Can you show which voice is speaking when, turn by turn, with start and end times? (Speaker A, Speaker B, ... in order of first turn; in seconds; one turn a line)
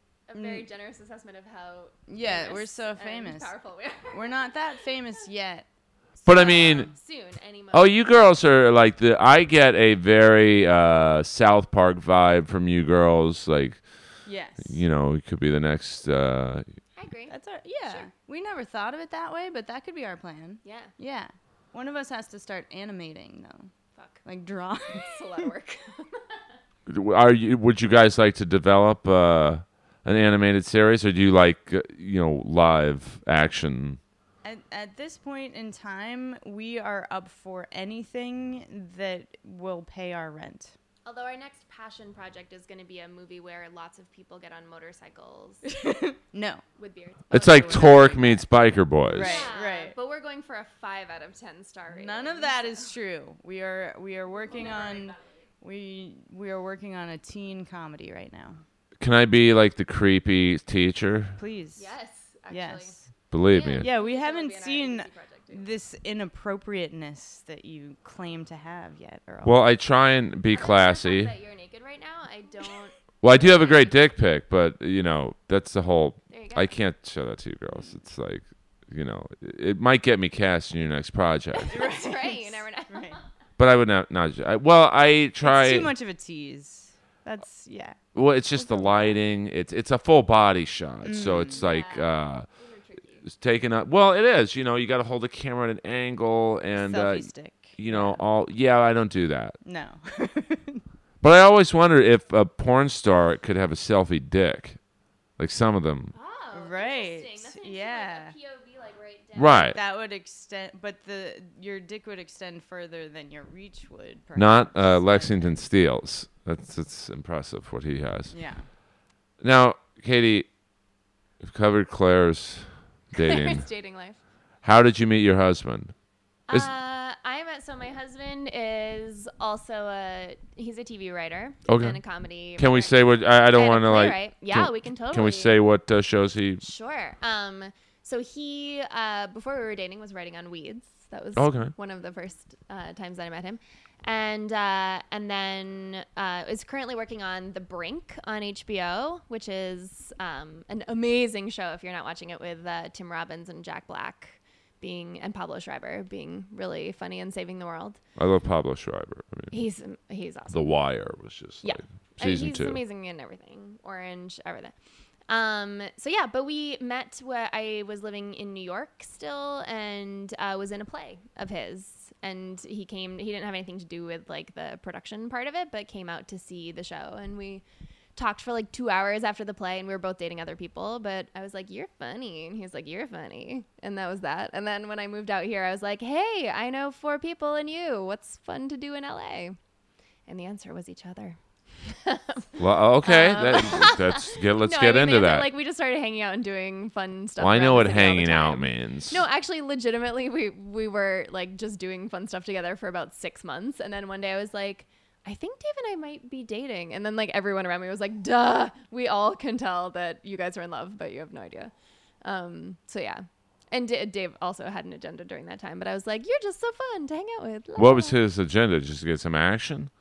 Speaker A: 0.3-4.9
Speaker B: 0.3-0.7
Speaker B: 2.1-3.5
Speaker B: 4.1-5.7
Speaker A: 6.2-8.4
Speaker C: 6.3-6.9
Speaker B: 6.3-6.9
Speaker C: 7.7-13.8
Speaker B: 14.2-14.8
Speaker C: 14.7-16.6
Speaker A: 16.9-18.1
Speaker B: 17.3-23.7
Speaker A: 20.6-20.9
Speaker A: 23.9-24.2
Speaker B: 24.2-25.5
Speaker A: 24.9-26.4
Speaker C: 26.9-34.0
Speaker B: 34.4-40.8
Speaker A: 41.0-45.7
Speaker B: 45.6-46.6
Speaker A: 46.8-48.4
Speaker B: 47.3-48.5
Speaker C: 47.3-49.5
Speaker B: 49.0-50.0
Speaker A: 49.2-52.9
Speaker B: 51.9-58.6
Speaker A: 54.3-55.5
Speaker C: 59.0-61.4
Speaker B: 61.4-61.9
Speaker A: 61.8-65.7
Speaker B: 62.5-63.1
Speaker C: 63.3-63.9
Speaker B: 63.8-69.6
Speaker C: 69.4-71.3
Speaker A: 70.5-74.0
Speaker C: 73.2-81.8
Speaker A: 76.3-76.7
Speaker B: 77.7-78.0
Speaker A: 81.6-83.2
Speaker B: 81.7-83.2
Speaker C: 83.6-85.9
Speaker B: 85.4-88.0
Speaker C: 88.2-92.5
Speaker B: 88.6-89.2
Speaker B: 91.0-91.7
Speaker A: 91.5-93.2
Speaker C: 93.3-99.6
Speaker B: 96.8-98.2
Speaker B: 99.6-100.8
Speaker C: 101.2-104.8
Speaker C: 105.4-106.1
Speaker A: 106.1-109.8
Speaker B: 106.5-108.3
Speaker C: 109.4-109.8
Speaker B: 109.7-115.6
Speaker C: 114.3-118.3
Speaker B: 118.3-118.7
Speaker C: 119.4-120.5
Speaker C: 121.4-123.7
Speaker A: 123.1-124.2
Speaker C: 124.6-125.9
Speaker A: 126.5-135.6
Speaker C: 131.7-132.0
Speaker C: 132.6-136.6
Speaker A: 136.6-158.0
Speaker C: 141.4-141.7
Speaker C: 158.2-159.5
Speaker A: 159.5-160.8
Speaker C: 160.5-162.8
Speaker A: 161.6-164.7
Speaker A: 165.3-177.6
Speaker A: 178.2-189.6
Speaker A: 190.3-218.2
Speaker C: 192.6-195.5
Speaker C: 197.4-199.2
Speaker C: 217.8-219.9